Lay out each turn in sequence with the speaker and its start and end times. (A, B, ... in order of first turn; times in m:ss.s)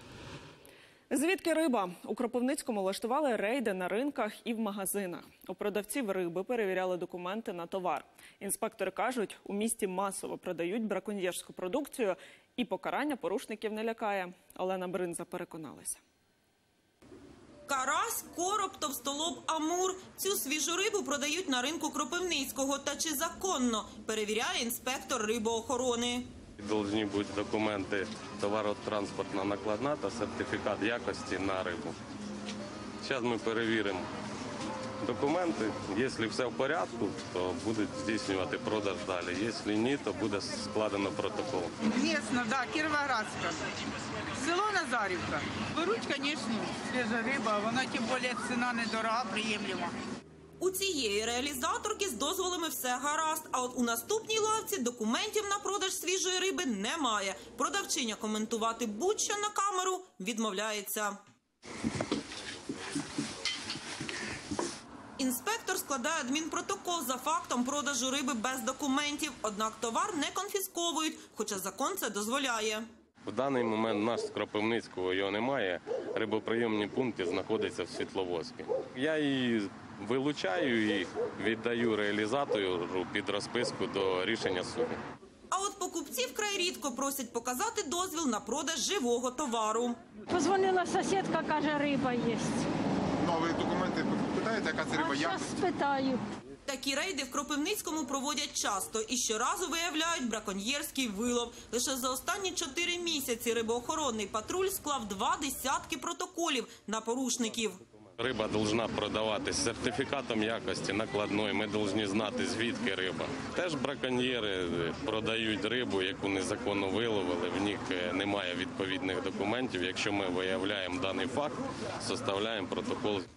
0:01.1-0:16.0 A
0:17.7-0:26.3 B
0:26.6-0:32.0 C
0:33.0-0:34.1 C
0:35.0-0:41.8 C
0:41.9-0:43.6 D
0:44.4-0:49.9 D
0:50.6-1:01.2 B
1:05.2-1:12.9 B
1:13.2-1:25.0 C
1:25.5-1:30.0 B
1:30.3-1:32.7 E
1:33.3-1:35.4 F
1:34.9-1:36.2 E
1:36.7-1:47.8 B
1:48.2-2:03.3 C